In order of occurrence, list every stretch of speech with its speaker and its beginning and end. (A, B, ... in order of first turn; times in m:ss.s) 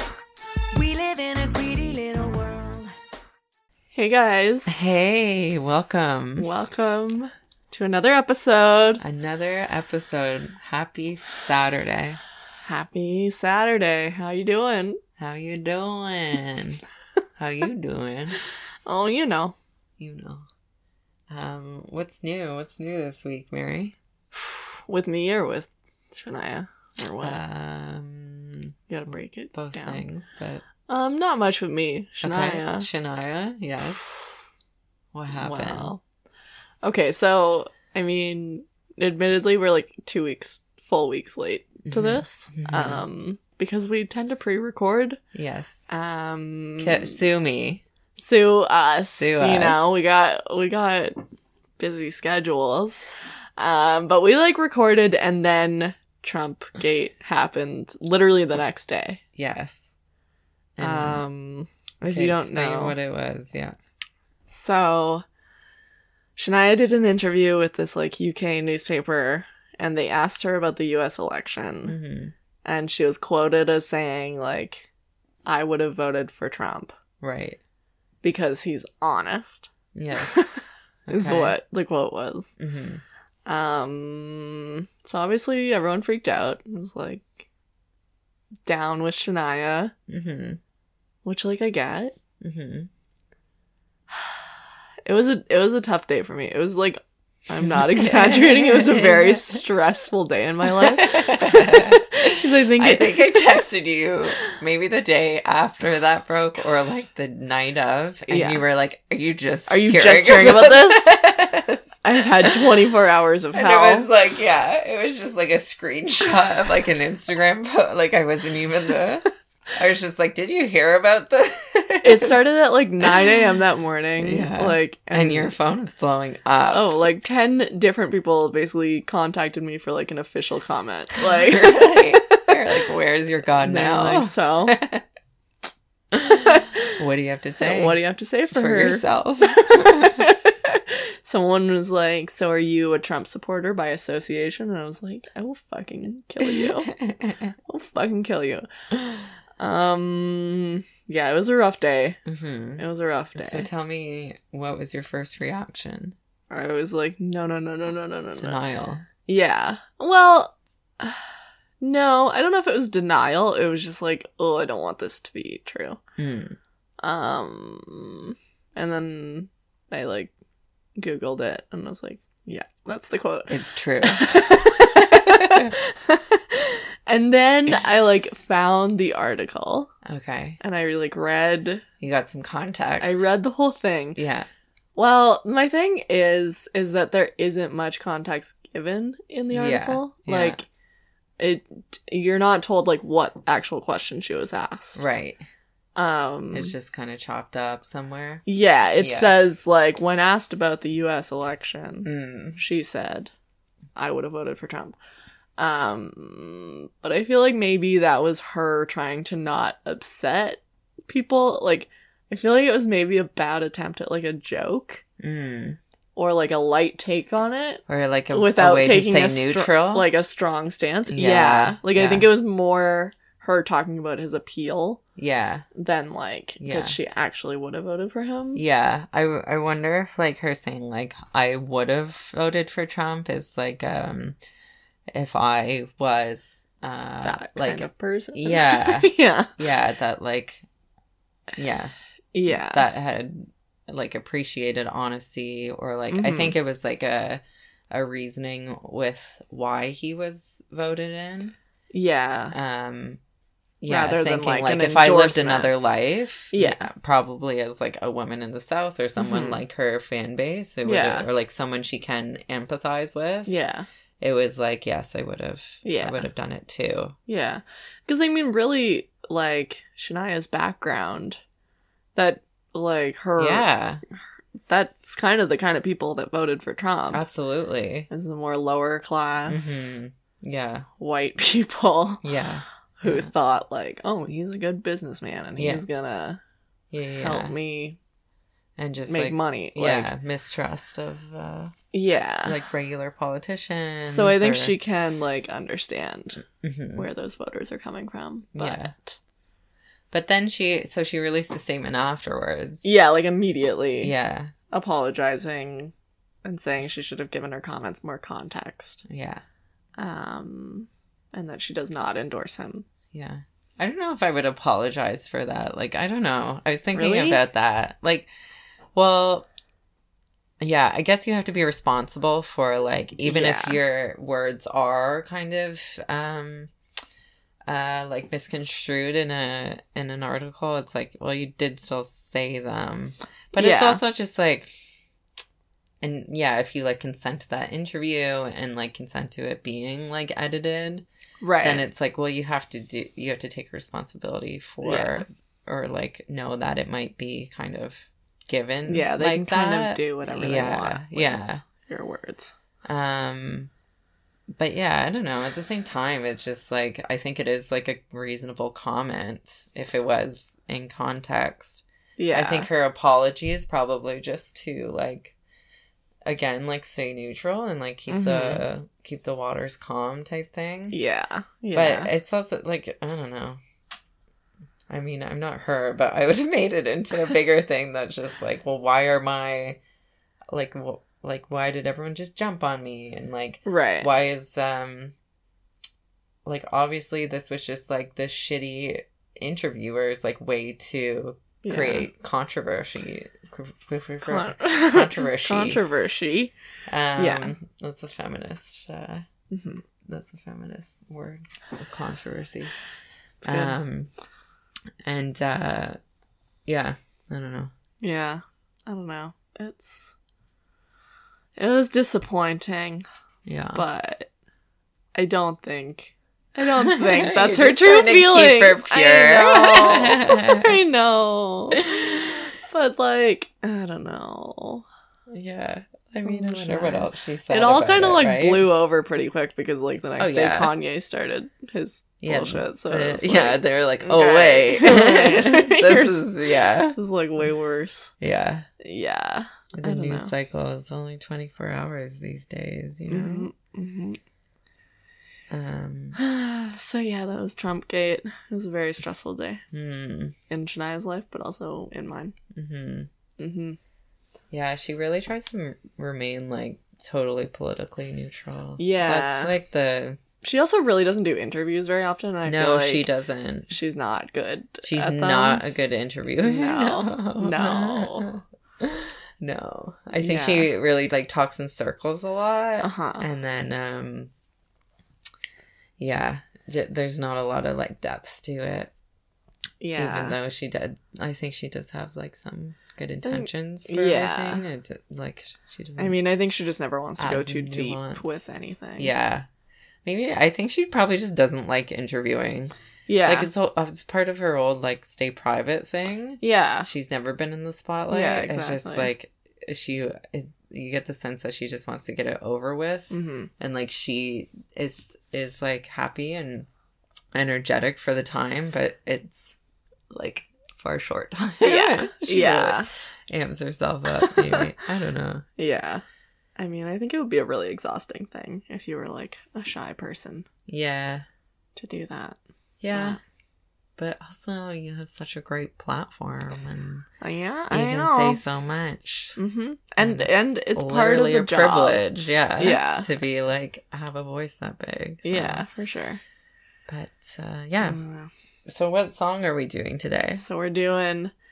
0:00.7-0:03.0 A
0:03.9-0:05.0 B
0:04.7-0:06.5 C
0:06.4-0:09.0 B
0:09.0-0:12.2 C
0:12.6-0:15.0 B
0:15.2-0:16.8 C
0:17.4-0:18.4 C
0:18.9-0:19.6 B
0:20.0-0:20.4 C
0:21.3-0:24.0 C
0:24.3-0:27.4 B
0:27.2-0:28.7 C
0:28.9-0:30.0 B
0:29.5-0:30.6 C
0:30.9-0:32.9 B
0:32.2-0:34.0 C
0:34.0-0:34.4 B
0:35.1-0:35.9 C
0:35.3-0:36.0 B
0:36.8-0:45.2 B
0:41.9-0:43.0 C
0:45.4-0:45.9 C
0:45.9-0:47.2 B
0:46.8-0:47.8 C
0:48.2-0:51.2 B
0:49.2-0:50.0 C
0:51.8-0:53.0 B
0:53.6-0:59.2 B
0:59.4-0:59.9 C
1:00.8-1:01.2 C
1:00.8-1:03.0 B
1:02.1-1:03.8 C
1:04.5-1:05.2 B
1:06.4-1:12.0 B
1:11.9-1:12.3 C
1:12.6-1:14.8 B
1:15.4-1:17.0 B
1:17.2-1:17.6 C
1:18.2-1:22.6 B
1:20.0-1:20.5 C
1:21.1-1:21.6 C
1:22.6-1:23.0 C
1:23.5-1:27.5 B
1:28.7-1:29.9 B
1:30.1-1:30.6 C
1:31.2-1:32.2 B
1:32.4-1:32.9 C
1:35.1-1:43.6 B
1:37.6-1:39.6 C
1:40.7-1:52.9 C
1:48.3-1:48.6 B
1:49.7-1:51.2 B
1:52.0-1:54.1 B
1:53.5-2:02.4 C
2:02.0-2:05.5 B
2:04.2-2:07.0 C
2:06.7-2:12.4 B
2:11.2-2:15.0 C
2:13.6-2:14.8 B
2:16.1-2:18.0 C
2:17.6-2:19.1 B
2:18.5-2:20.3 C
2:19.6-2:26.9 B
2:26.4-2:27.6 C
2:27.6-2:28.7 B
2:29.6-2:32.2 B
2:32.3-2:32.8 C
2:32.8-2:33.7 B
2:33.4-2:36.2 C
2:36.5-2:38.6 B
2:38.4-2:39.1 C
2:39.3-2:41.3 B
2:41.8-2:46.0 B
2:46.2-2:46.6 C
2:47.0-2:50.3 B
2:51.0-2:53.6 B
2:53.5-2:55.7 C
2:54.1-2:59.9 B
3:00.0-3:00.6 C
3:00.6-3:01.8 B
3:02.0-3:03.3 C
3:03.0-3:04.2 B
3:04.2-3:04.5 C
3:05.0-3:10.7 B
3:09.5-3:10.6 C
3:11.4-3:15.1 B
3:15.0-3:15.4 C
3:16.0-3:16.7 B
3:16.5-3:18.4 C
3:18.5-3:23.3 B
3:19.0-3:19.4 C
3:22.0-3:22.6 C
3:24.0-3:25.0 B
3:25.6-3:35.0 B
3:35.2-3:35.8 C
3:36.2-3:45.0 B
3:37.9-3:40.1 C
3:41.1-3:42.3 C
3:45.2-3:45.7 C
3:45.8-3:48.6 B
3:46.6-3:47.0 C
3:48.6-3:54.4 C
3:55.1-4:00.6 C
3:57.2-3:59.6 B
4:01.6-4:01.9 C
4:02.3-4:02.8 B
4:02.5-4:11.6 C
4:06.1-4:06.6 B
4:11.9-4:12.6 B
4:12.5-4:13.2 C
4:13.8-4:23.6 C
4:13.9-4:15.7 B
4:16.5-4:16.9 B
4:19.2-4:19.6 B
4:20.8-4:21.3 B
4:23.5-4:23.9 B
4:24.2-4:27.2 C
4:25.8-4:26.3 B
4:27.3-4:31.4 B
4:32.2-4:33.7 B
4:33.4-4:34.0 C
4:34.7-4:37.2 B
4:37.1-4:38.1 C
4:38.1-4:40.0 B
4:39.5-4:40.9 C
4:41.0-4:42.2 B
4:42.2-4:43.3 C
4:43.0-4:46.4 B
4:45.6-4:45.8 C
4:46.9-4:47.6 C
4:47.2-4:48.0 B
4:48.8-4:51.8 C
4:49.1-4:50.1 B
4:51.9-4:52.6 B
4:52.4-4:54.8 C
4:54.0-4:56.4 B
4:56.6-4:57.1 C
4:57.0-4:59.2 B
4:58.6-4:58.9 C
5:00.1-5:02.9 C
5:02.8-5:04.1 B
5:04.0-5:04.5 C
5:04.7-5:05.9 B
5:06.4-5:09.0 B
5:09.0-5:09.4 C
5:10.0-5:12.9 B
5:13.1-5:18.3 C
5:16.9-5:17.4 B
5:18.9-5:19.5 C
5:20.6-5:26.7 C
5:23.2-5:23.8 B
5:27.7-5:34.7 C
5:33.6-5:34.0 B
5:36.0-5:41.0 C
5:41.4-5:41.8 B
5:41.6-5:51.6 C
5:44.8-5:45.2 B
5:48.9-5:52.5 B
5:52.9-5:53.7 C
5:54.6-6:05.4 C
6:02.2-6:02.7 B
6:06.3-6:11.0 C
6:08.1-6:08.6 B
6:10.9-6:12.1 B
6:11.7-6:13.6 C
6:14.9-6:19.8 C
6:20.5-6:25.1 C
6:23.7-6:24.1 B
6:26.4-6:35.8 C
6:31.6-6:32.1 B
6:34.3-6:36.5 B
6:36.9-6:39.3 C
6:37.2-6:37.5 B
6:39.5-6:39.8 B
6:40.0-6:42.7 C
6:43.4-6:44.1 C
6:43.4-6:43.8 B
6:45.0-6:46.0 C
6:46.7-6:47.7 C
6:48.0-6:50.2 B
6:51.6-6:53.0 B
6:53.5-6:53.8 C
6:53.7-6:54.3 B
6:55.2-7:01.9 B
6:56.8-7:00.8 C
7:01.9-7:02.5 C
7:02.6-7:04.8 B
7:05.3-7:08.7 C
7:06.2-7:18.1 B
7:10.2-7:10.7 C
7:12.2-7:17.0 C
7:18.2-7:18.7 C
7:18.8-7:20.3 B
7:19.8-7:23.5 C
7:23.1-7:24.2 B
7:25.5-7:26.2 C
7:26.2-7:29.6 B
7:29.7-7:30.4 C
7:30.5-7:32.4 B
7:32.5-7:33.1 C
7:33.4-7:33.8 B
7:34.5-7:40.2 C
7:38.8-7:39.6 B
7:40.4-7:43.0 B
7:42.4-7:43.7 C
7:43.7-7:45.6 B
7:44.9-7:54.3 C
7:46.4-7:48.3 B
7:50.2-7:50.7 B
7:52.8-7:53.2 B
7:56.0-7:58.9 C
7:59.8-8:00.4 B
8:00.0-8:06.2 C
8:03.2-8:04.6 B
8:06.0-8:09.1 B
8:07.2-8:08.4 C
8:09.0-8:09.5 C
8:10.0-8:12.7 C
8:13.1-8:13.5 B
8:13.2-8:26.7 C
8:16.4-8:16.9 B
8:18.1-8:19.1 B
8:23.1-8:23.5 B
8:27.3-8:29.6 C
8:30.1-8:35.5 C
8:31.6-8:32.9 B
8:34.2-8:34.7 B
8:35.6-8:36.0 B
8:36.6-8:40.5 B
8:40.7-8:41.3 C
8:41.8-8:42.4 B
8:42.8-8:43.2 C
8:42.9-8:43.2 B
8:44.0-8:47.1 C
8:47.2-8:48.4 B
8:47.7-8:49.4 C
8:49.4-8:53.1 B
8:50.0-8:55.7 C
8:55.2-8:56.2 B
8:56.9-8:58.0 C
8:57.8-8:58.3 B
8:58.7-9:00.4 C
9:00.4-9:01.3 B